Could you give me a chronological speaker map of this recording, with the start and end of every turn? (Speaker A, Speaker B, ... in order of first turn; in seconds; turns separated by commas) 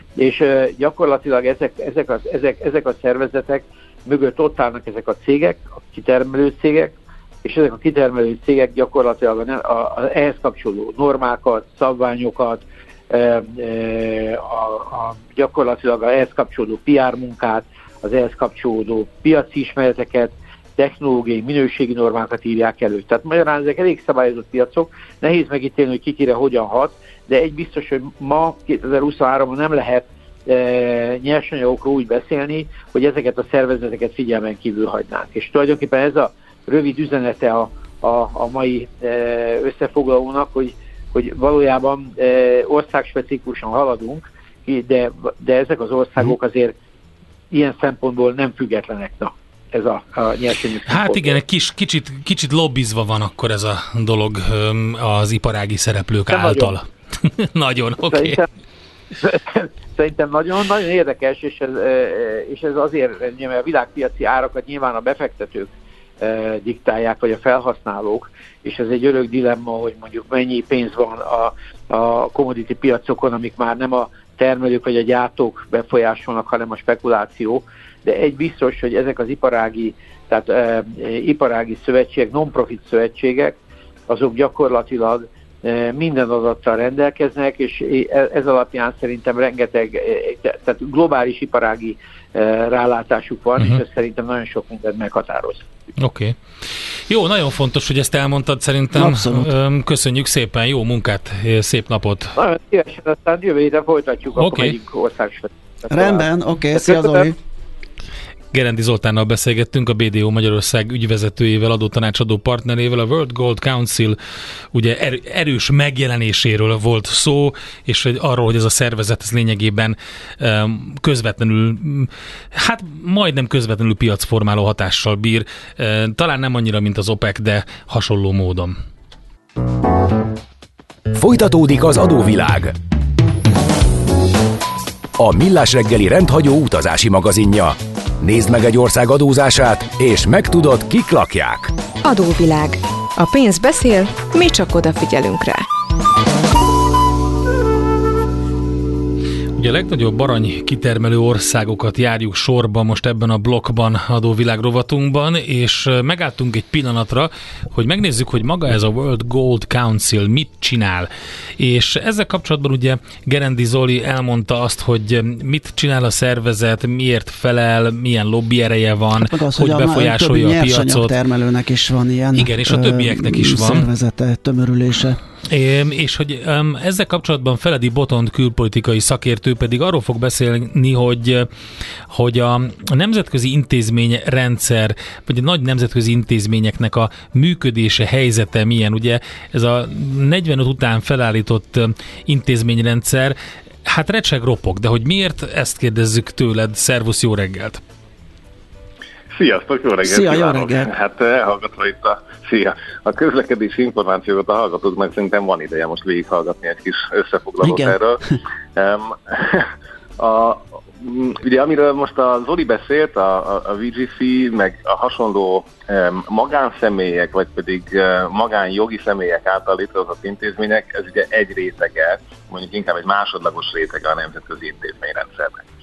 Speaker A: 0.2-46.7, Speaker A: 47.5-51.4, Speaker B: 50.9-58.4, Speaker A: 56.3-56.7, Speaker A: 58.1-58.5, Speaker A: 59.2-83.6, Speaker A: 84.1-95.6, Speaker B: 96.0-96.3, Speaker B: 97.1-102.3, Speaker C: 98.9-99.5, Speaker A: 102.3-107.3, Speaker B: 104.4-104.7, Speaker C: 105.9-107.3, Speaker B: 108.5-114.2, Speaker B: 114.7-128.8, Speaker D: 131.1-132.7, Speaker D: 135.2-141.7, Speaker E: 142.0-145.7, Speaker B: 149.6-171.1, Speaker C: 169.1-175.2, Speaker B: 172.3-173.9, Speaker B: 175.5-181.5, Speaker B: 182.1-197.8, Speaker F: 199.3-208.2, Speaker C: 200.0-200.9, Speaker C: 207.6-207.9, Speaker F: 208.7-225.6